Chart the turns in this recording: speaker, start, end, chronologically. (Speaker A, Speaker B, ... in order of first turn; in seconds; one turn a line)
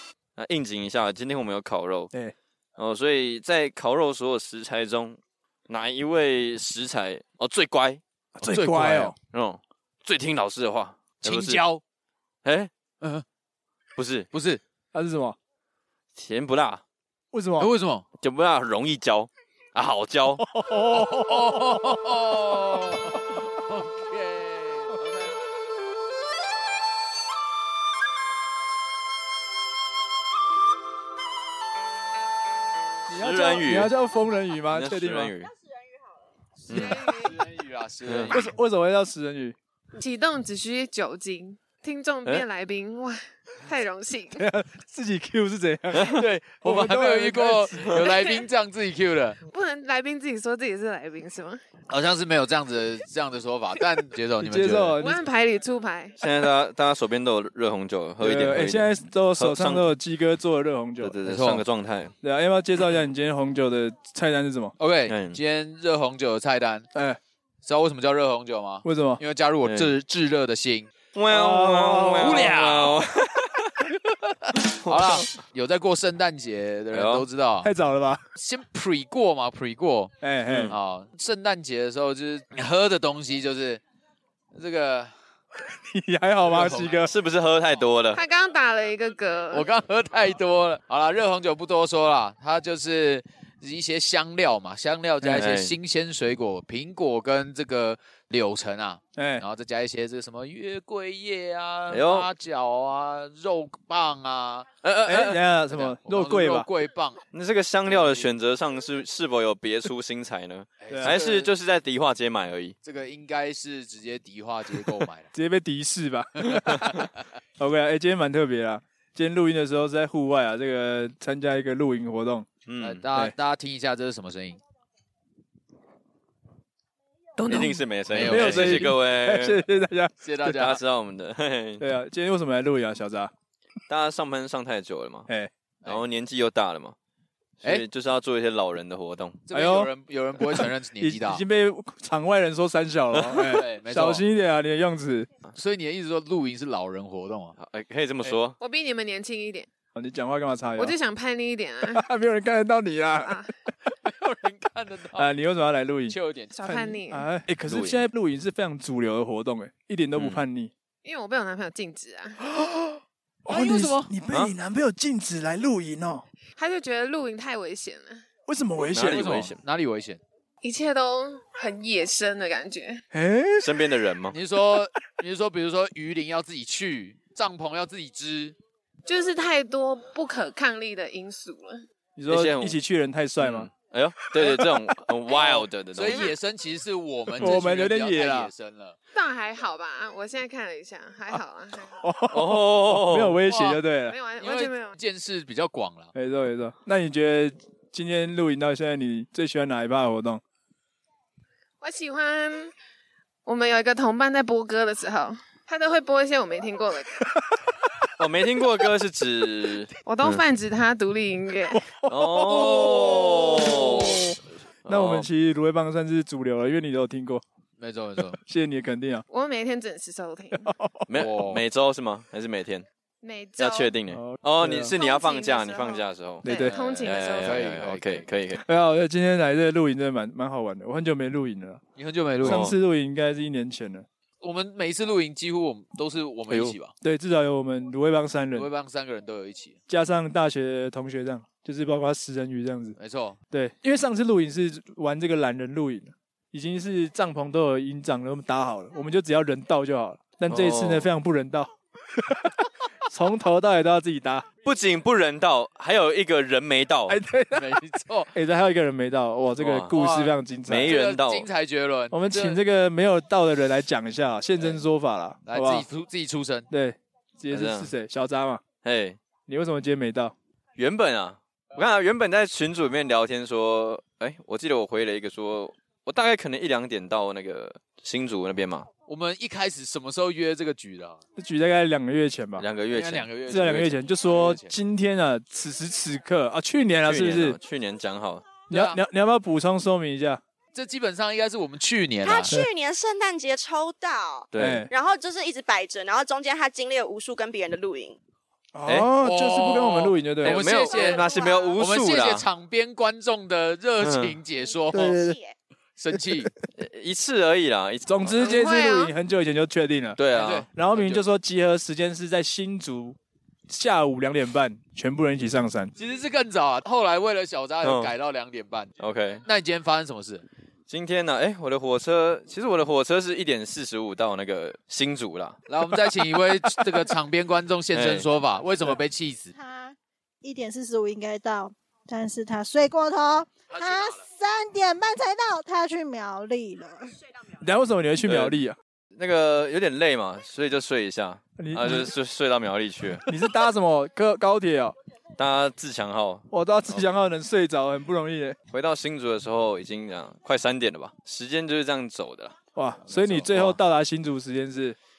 Speaker A: 0.3-2.1
Speaker A: 2.8-8.0
Speaker B: 8.3-9.1
Speaker C: 8.4-9.1
Speaker A: 9.2-11.6
Speaker C: 11.2-11.8
Speaker A: 12.4-12.7
Speaker A: 13.9-14.3
Speaker C: 14.3-14.6
Speaker B: 14.9-15.4
Speaker A: 16.1-16.8
Speaker B: 17.3-17.7
Speaker C: 17.6-18.0
Speaker A: 18.2-20.4
Speaker B: 20.4-21.8
Speaker C: 20.9-25.2
Speaker B: 33.1-35.3
Speaker A: 33.1-33.9
Speaker A: 34.7-35.5
Speaker C: 36.6-38.5
Speaker A: 36.7-37.0
Speaker D: 36.7-37.4
Speaker A: 38.0-38.4
Speaker B: 38.3-39.5
Speaker D: 40.0-44.5
Speaker B: 44.4-48.0
Speaker A: 45.9-46.2
Speaker C: 46.0-49.4
Speaker D: 49.5-51.6
Speaker C: 51.9-55.0
Speaker B: 54.4-55.2
Speaker D: 55.0-56.2
Speaker A: 56.2-59.9
Speaker B: 58.2-61.2
Speaker A: 61.0-62.1
Speaker C: 61.2-61.6
Speaker B: 62.2-64.7
Speaker C: 64.8-66.9
Speaker A: 65.1-65.4
Speaker B: 66.9-67.2
Speaker C: 67.6-70.9
Speaker B: 68.8-69.2
Speaker A: 69.6-69.9
Speaker A: 71.1-73.9
Speaker B: 71.3-72.6
Speaker C: 72.2-73.0
Speaker C: 74.4-77.7
Speaker A: 74.8-75.3
Speaker A: 76.9-77.2
Speaker B: 77.6-78.2
Speaker C: 78.3-80.1
Speaker B: 80.2-80.7
Speaker A: 80.5-80.8
Speaker C: 80.7-83.8
Speaker C: 84.5-85.1
Speaker B: 85.9-87.1
Speaker C: 86.5-87.0
Speaker A: 87.0-88.2
Speaker D: 88.1-89.7
Speaker C: 89.5-104.7
Speaker B: 95.2-95.5
Speaker A: 95.4-95.8
Speaker B: 99.2-99.4
Speaker A: 101.9-102.3
Speaker A: 104.8-105.4
Speaker B: 105.1-106.7
Speaker C: 105.7-107.2
Speaker A: 107.3-112.7
Speaker C: 107.8-108.3
Speaker C: 110.8-111.5
Speaker B: 110.9-111.1
Speaker C: 112.8-115.3
Speaker B: 115.3-117.0
Speaker C: 116.4-117.1
Speaker B: 117.6-122.5
Speaker A: 122.7-123.0
Speaker C: 122.8-124.6
Speaker A: 127.4-129.6
Speaker B: 127.5-130.1
Speaker C: 128.1-128.9
Speaker C: 130.2-130.8
Speaker A: 130.4-131.8
Speaker B: 131.8-133.3
Speaker A: 133.9-135.3
Speaker A: 135.8-136.9
Speaker A: 137.6-139.4
Speaker C: 139.5-141.4
Speaker B: 139.5-139.9
Speaker B: 140.5-145.3
Speaker C: 143.2-144.2
Speaker C: 145.5-147.6
Speaker A: 147.6-148.6
Speaker D: 148.6-149.7
Speaker B: 149.9-151.0
Speaker D: 150.8-152.1
Speaker B: 151.8-153.3
Speaker D: 153.2-153.5
Speaker C: 154.0-155.3
Speaker B: 155.1-156.2
Speaker C: 156.1-156.6
Speaker D: 156.5-157.3
Speaker B: 156.7-160.7
Speaker A: 157.7-158.0
Speaker A: 160.1-160.4
Speaker D: 161.0-162.4
Speaker B: 162.4-166.2
Speaker C: 163.5-164.1
Speaker D: 166.6-168.2
Speaker B: 168.5-169.3
Speaker A: 168.9-169.6
Speaker C: 169.0-170.2
Speaker D: 170.6-173.0
Speaker B: 173.1-173.8
Speaker A: 173.6-174.3
Speaker C: 174.3-178.6
Speaker D: 179.1-181.8
Speaker B: 182.2-183.7
Speaker A: 182.3-182.8
Speaker A: 183.4-186.3
Speaker B: 184.3-184.9
Speaker C: 185.3-188.9
Speaker B: 187.4-188.5
Speaker D: 189.1-192.1
Speaker B: 192.0-194.1
Speaker A: 192.3-193.4
Speaker C: 193.5-193.8
Speaker D: 193.9-194.9
Speaker C: 194.4-196.1
Speaker B: 196.1-200.4
Speaker D: 201.8-202.7
Speaker D: 203.4-207.1
Speaker A: 208.2-210.4
Speaker D: 210.0-211.9
Speaker B: 211.8-214.3
Speaker A: 212.1-215.3
Speaker B: 214.9-217.4
Speaker C: 217.8-218.4
Speaker B: 218.4-219.2
Speaker D: 219.3-220.7
Speaker B: 220.5-221.1
Speaker A: 221.1-222.9
Speaker C: 221.1-221.6
Speaker D: 223.2-223.9
Speaker A: 223.6-226.4
Speaker B: 224.1-224.9
Speaker D: 224.9-227.7
Speaker B: 226.4-226.8
Speaker C: 226.7-228.2
Speaker A: 227.0-228.6
Speaker B: 228.6-231.8
Speaker C: 231.9-232.7
Speaker A: 232.4-232.7
Speaker B: 232.4-234.1
Speaker C: 234.4-236.9
Speaker A: 236.5-236.7
Speaker B: 237.0-238.7
Speaker C: 238.5-239.8
Speaker B: 239.9-243.0
Speaker C: 243.0-243.4
Speaker B: 243.5-252.5
Speaker A: 250.5-251.1
Speaker B: 253.1-254.4
Speaker A: 254.6-257.2
Speaker B: 257.1-260.9
Speaker C: 257.5-258.3
Speaker A: 259.6-259.9
Speaker C: 259.9-260.3
Speaker A: 260.7-261.5
Speaker C: 260.9-262.6
Speaker B: 262.1-265.9
Speaker C: 265.5-266.7
Speaker B: 266.7-268.6
Speaker A: 267.5-267.9
Speaker A: 268.8-269.2
Speaker B: 269.4-270.3
Speaker A: 270.8-278.9
Speaker C: 279.1-281.2
Speaker B: 281.4-282.6
Speaker A: 282.6-283.3
Speaker C: 282.9-284.7
Speaker B: 283.5-287.6
Speaker A: 287.1-288.6
Speaker B: 288.7-290.4
Speaker C: 288.7-289.0
Speaker C: 290.7-292.5
Speaker E: 292.2-298.2
Speaker A: 294.5-294.9
Speaker B: 294.6-294.9
Speaker B: 298.7-300.6
Speaker C: 299.2-305.2
Speaker A: 300.4-302.4
Speaker E: 300.7-301.8
Speaker A: 304.0-304.4
Speaker B: 304.9-305.3
Speaker E: 304.9-305.6
Speaker C: 306.0-306.5
Speaker A: 306.8-308.3
Speaker B: 308.1-310.2
Speaker D: 308.4-309.1
Speaker A: 310.2-310.7
Speaker C: 310.3-311.2
Speaker B: 310.7-313.2
Speaker B: 313.7-315.9
Speaker C: 316.0-318.9
Speaker A: 317.8-318.1
Speaker A: 319.0-319.4
Speaker C: 319.4-320.4
Speaker A: 320.9-325.6
Speaker C: 325.7-329.5
Speaker A: 327.9-328.3
Speaker F: 329.5-337.1
Speaker C: 333.8-334.1
Speaker B: 337.6-338.8
Speaker A: 338.2-338.6
Speaker A: 339.2-343.3
Speaker B: 341.6-342.1
Speaker B: 343.2-344.9
Speaker A: 345.4-347.0
Speaker B: 346.5-348.6
Speaker A: 348.7-352.6
Speaker B: 352.7-355.0
Speaker A: 353.1-353.8